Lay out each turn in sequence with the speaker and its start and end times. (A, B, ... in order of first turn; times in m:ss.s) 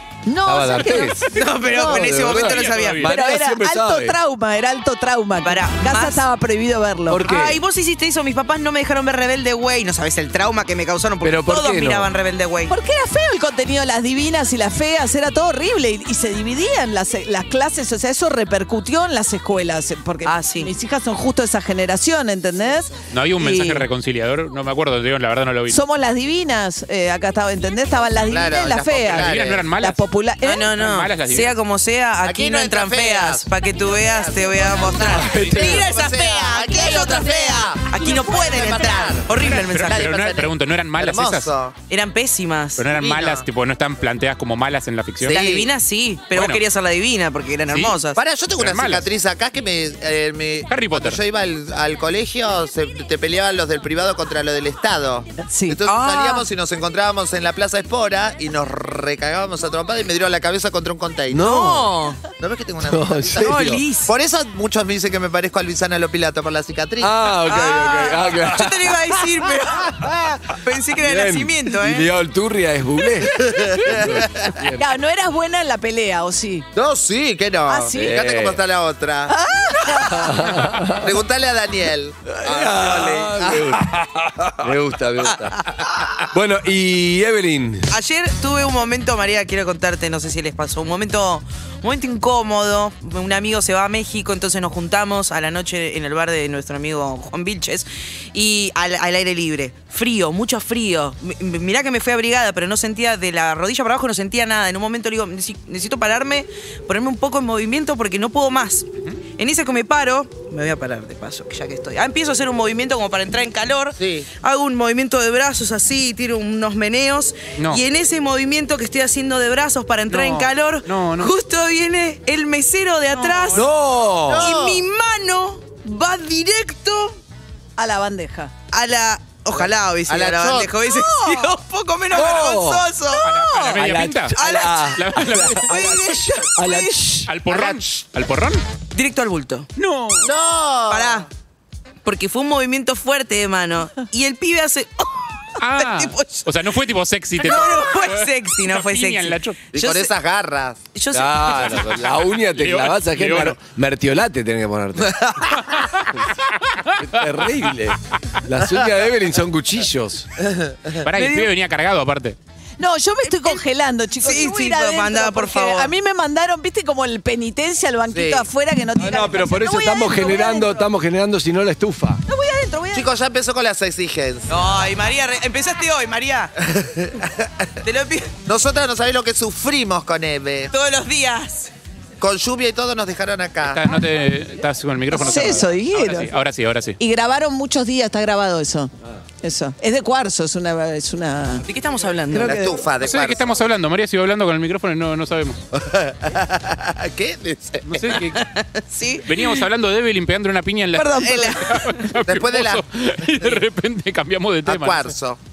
0:00.2-0:02.1 A
0:00.4-0:04.2 B
0:01.3-0:03.0 C
0:02.3-0:03.1 D
0:03.0-0:07.2 A
0:05.4-0:06.2 C
0:07.1-0:07.6 B
0:07.2-0:12.7 C
0:11.2-0:12.1 B
0:12.7-0:23.8 A
0:20.2-0:20.7 C
0:23.1-0:25.8 D
0:25.7-0:30.6 A
0:28.3-0:29.7 E
0:29.0-0:30.0 D
0:30.4-0:40.1 C
0:30.8-0:31.5 D
0:32.2-0:41.7 E
0:35.0-0:35.9 B
0:39.5-0:41.5 D
0:41.9-0:42.8 C
0:42.8-0:45.5 D
0:42.9-0:43.4 E
0:45.2-0:45.7 E
0:45.3-0:48.2 C
0:46.3-0:46.6 D
0:47.7-0:48.0 D
0:48.2-1:01.5 E
0:48.6-0:49.0 D
0:50.7-0:51.2 D
0:55.4-0:55.8 A
0:55.9-0:56.5 C
1:01.3-1:01.9 B
1:01.4-1:02.2 C
1:02.4-1:07.1 E
1:02.8-1:03.8 B
1:03.4-1:04.1 C
1:07.0-1:09.2 B
1:07.4-1:12.1 C
1:10.0-1:10.4 B
1:11.0-1:14.8 B
1:13.3-1:14.6 E
1:14.7-1:16.7 A
1:16.7-1:19.4 E
1:17.7-1:18.2 A
1:17.9-1:18.6 B
1:19.3-1:20.4 A
1:19.9-1:21.1 B
1:21.0-1:23.8 E
1:22.3-1:27.9 B
1:27.9-2:03.7 C
1:54.0-1:54.3 E
2:00.1-2:01.3 D
2:03.2-2:03.6 A
2:03.5-2:04.5 B
2:04.2-2:04.8 E
2:04.4-2:07.2 C
2:07.8-2:08.5 A
2:08.7-2:13.8 C
2:09.5-2:10.7 E
2:10.9-2:11.5 A
2:12.1-2:12.9 B
2:13.2-2:15.8 D
2:13.7-2:15.7 B
2:14.3-2:16.6 C
2:16.5-2:17.3 B
2:16.6-2:17.1 A
2:17.3-2:18.6 D
2:17.5-2:17.8 E
2:18.9-2:19.7 C
2:19.8-2:20.3 D
2:20.2-2:21.3 E
2:20.9-2:21.3 C
2:22.0-2:26.5 C
2:25.6-2:29.6 D
2:27.4-2:30.1 C
2:29.7-2:30.8 E
2:30.9-2:31.9 C
2:31.1-2:35.3 B
2:31.5-2:33.6 D
2:35.0-2:35.5 E
2:35.8-2:36.1 D
2:36.6-2:37.0 D
2:37.0-2:40.3 B
2:40.5-2:41.0 E
2:41.0-2:42.4 D
2:41.2-2:41.4 C
2:42.8-2:50.9 A
2:43.4-2:43.6 C
2:44.2-2:45.9 C
2:48.1-2:48.5 E
2:49.0-2:52.2 B
2:52.3-2:53.1 A
2:52.9-2:54.5 E
2:54.5-2:56.5 C
2:56.6-2:57.7 E
2:57.8-2:58.3 C
2:58.5-3:00.7 E
3:00.7-3:01.7 C
3:02.2-3:03.8 E
3:03.6-3:07.0 D
3:05.1-3:06.3 A
3:07.0-3:08.9 A
3:09.4-3:11.6 A
3:11.7-3:12.6 C
3:12.3-3:12.8 A
3:12.3-3:13.6 E
3:13.0-3:15.6 D
3:15.7-3:18.1 E
3:17.8-3:18.4 D
3:18.3-3:19.6 C
3:19.3-3:25.1 D
3:20.9-3:21.6 A
3:21.2-3:21.9 C
3:22.2-3:22.8 E
3:24.6-3:25.4 E